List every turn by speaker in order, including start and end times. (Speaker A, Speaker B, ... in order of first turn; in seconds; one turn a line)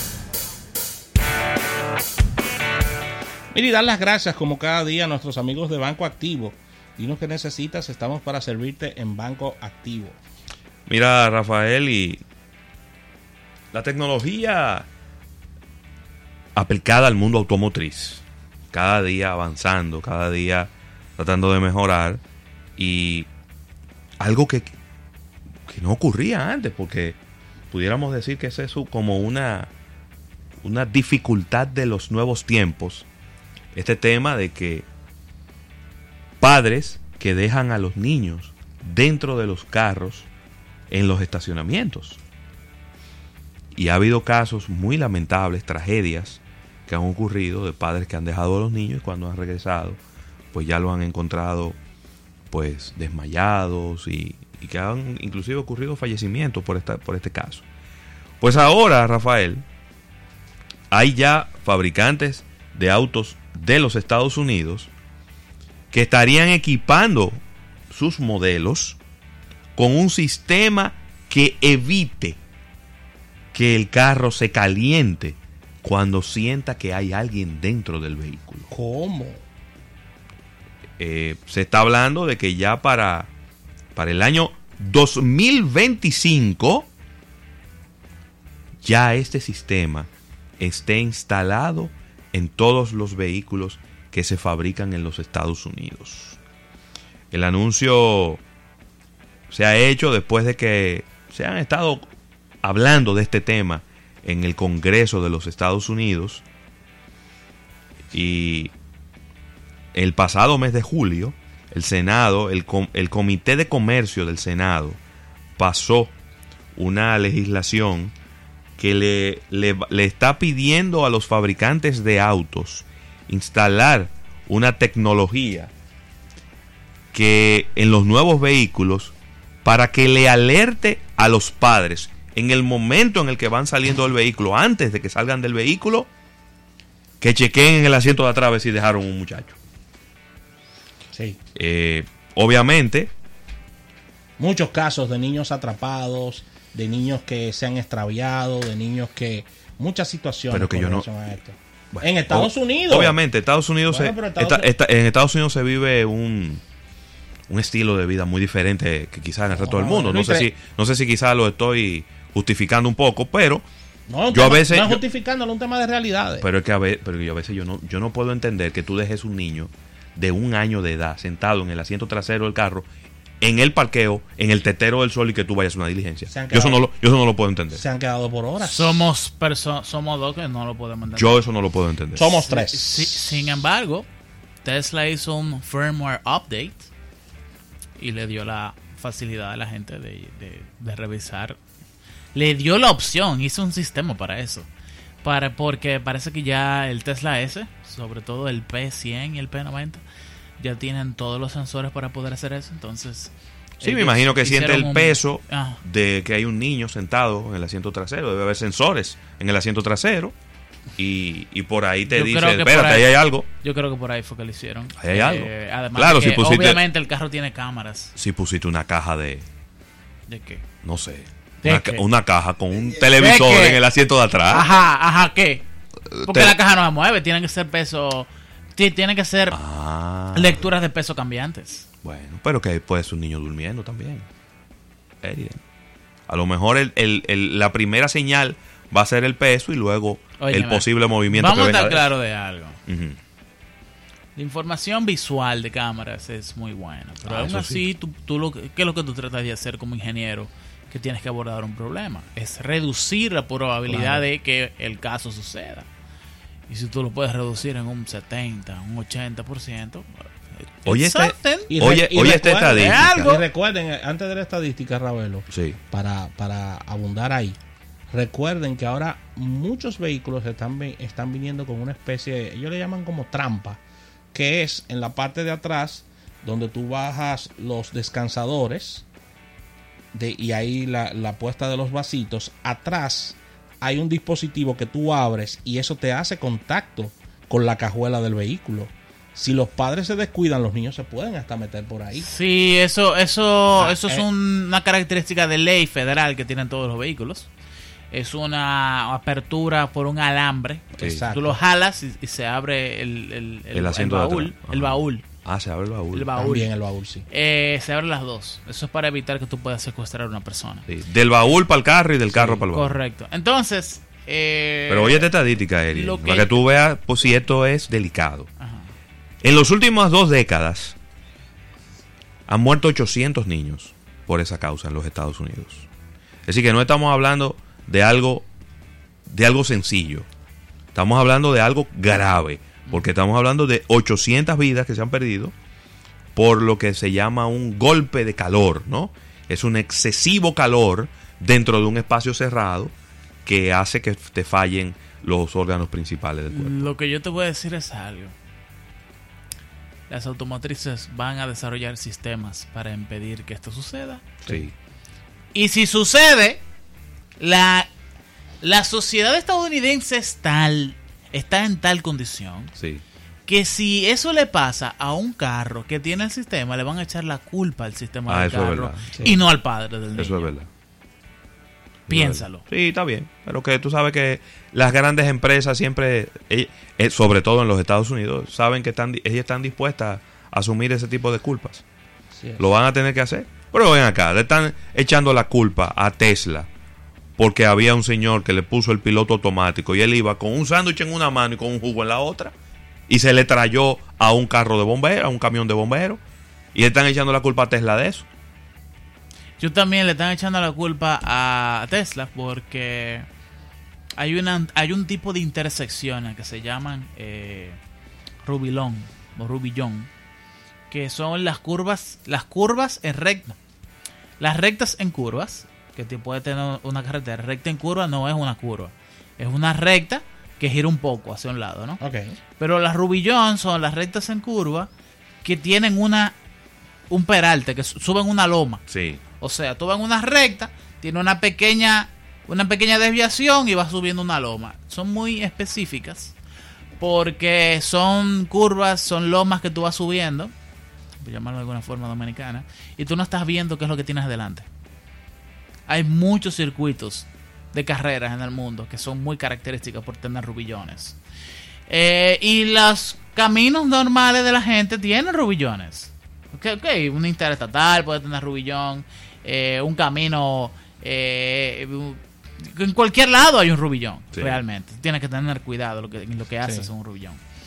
Speaker A: 3.5-10.2
Speaker B: 10.9-12.2
Speaker B: 13.7-14.9
Speaker B: 16.6-22.2
Speaker B: 22.8-23.3
Speaker B: 24.2-24.7
Speaker B: 25.7-27.2
Speaker B: 27.7-29.7
Speaker B: 30.6-33.1
Speaker B: 33.7-34.8
Speaker B: 36.4-40.3
Speaker B: 40.9-42.2
Speaker B: 43.7-50.0
Speaker B: 50.5-51.8
Speaker B: 52.5-57.6
Speaker B: 58.4-59.6
Speaker B: 60.9-64.9
Speaker B: 65.9-69.0
Speaker B: 69.8-72.4
Speaker B: 73.5-78.7
Speaker A: 78.7-79.4
Speaker B: 81.0-83.3
Speaker B: 83.9-86.9
Speaker B: 88.8-90.1
Speaker B: 90.6-96.4
Speaker B: 97.3-98.4
Speaker B: 99.5-102.1
Speaker B: 102.6-106.4
Speaker B: 108.1-108.7
Speaker B: 109.9-115.0
Speaker B: 115.6-116.1
Speaker B: 116.8-118.1
Speaker B: 118.8-125.7
Speaker B: 127.1-129.1
Speaker B: 129.6-136.1
Speaker B: 137.2-139.6
Speaker A: 141.1-141.4
Speaker B: 141.5-143.1
Speaker A: 144.4-153.2
Speaker B: 150.5-151.1
Speaker B: 151.9-156.6
Speaker A: 153.8-154.7
Speaker B: 157.5-163.6
Speaker A: 159.5-160.5
Speaker A: 164.1-166.4
Speaker B: 164.3-165.0
Speaker B: 166.4-172.8
Speaker B: 173.4-177.8
Speaker A: 176.3-176.9
Speaker A: 177.7-179.1
Speaker C: 178.6-181.4
Speaker B: 181.2-182.3
Speaker A: 182.1-183.5
Speaker C: 182.4-184.1
Speaker C: 184.6-186.9
Speaker C: 188.0-191.6
Speaker C: 192.3-194.7
Speaker C: 195.2-200.0
Speaker C: 200.6-205.8
Speaker B: 203.8-210.3
Speaker B: 211.0-213.5
Speaker C: 212.1-218.1
Speaker B: 215.0-216.8
Speaker B: 218.2-219.4
Speaker C: 220.3-220.6
Speaker B: 220.8-224.7
Speaker C: 221.6-222.0
Speaker C: 223.1-223.8
Speaker C: 224.5-225.6
Speaker B: 226.1-226.6
Speaker C: 226.2-229.6
Speaker B: 229.5-230.7
Speaker C: 230.3-231.9
Speaker B: 232.0-234.2
Speaker B: 235.2-235.6
Speaker B: 236.3-242.1
Speaker C: 240.4-242.8
Speaker B: 242.9-243.2
Speaker C: 244.3-255.9
Speaker B: 247.2-247.8
Speaker A: 253.9-254.2
Speaker C: 256.7-261.8
Speaker B: 260.9-263.3
Speaker A: 261.7-267.6
Speaker C: 262.7-263.4
Speaker B: 265.5-265.8
Speaker A: 268.1-273.8
Speaker A: 274.3-279.1
Speaker A: 280.1-292.3
Speaker C: 292.2-297.5
Speaker A: 293.7-294.3
Speaker C: 298.1-305.2
Speaker A: 300.9-301.6
Speaker B: 301.0-301.3
Speaker B: 303.7-306.3
Speaker C: 306.1-306.7
Speaker A: 306.4-307.2
Speaker C: 307.3-310.9
Speaker B: 310.9-313.0
Speaker C: 312.3-315.3
Speaker B: 314.9-318.5
Speaker C: 315.9-316.6
Speaker C: 318.6-318.9
Speaker B: 319.4-320.9
Speaker B: 322.5-325.9
Speaker B: 326.5-328.4
Speaker B: 329.3-330.2
Speaker B: 330.9-335.5
Speaker B: 336.3-342.9
Speaker B: 343.4-346.9
Speaker C: 346.5-348.3
Speaker C: 350.1-354.3
Speaker B: 354.4-354.7
Speaker C: 355.5-356.6
Speaker C: 357.4-357.9
Speaker C: 358.6-362.7
Speaker B: 362.8-363.0
Speaker C: 363.5-370.5
Speaker B: 368.3-369.4
Speaker B: 370.1-370.7
Speaker B: 372.1-381.8
Speaker C: 372.1-372.6
Speaker A: 382.3-382.6
Speaker B: 382.6-386.7
Speaker B: 387.4-392.5
Speaker B: 393.1-396.2
Speaker B: 396.7-398.2
Speaker C: 399.6-403.2
Speaker C: 404.2-407.8
Speaker C: 408.4-410.1
Speaker C: 410.9-413.6
Speaker C: 414.4-422.0
Speaker A: 422.0-422.4
Speaker C: 422.6-424.9
Speaker C: 425.4-426.4
Speaker C: 427.1-428.8
Speaker B: 428.9-429.2
Speaker C: 429.4-436.3
Speaker C: 437.0-440.5
Speaker C: 441.2-444.7
Speaker C: 445.9-451.2
Speaker C: 451.9-467.4
Speaker B: 464.3-464.6
Speaker A: 466.6-466.9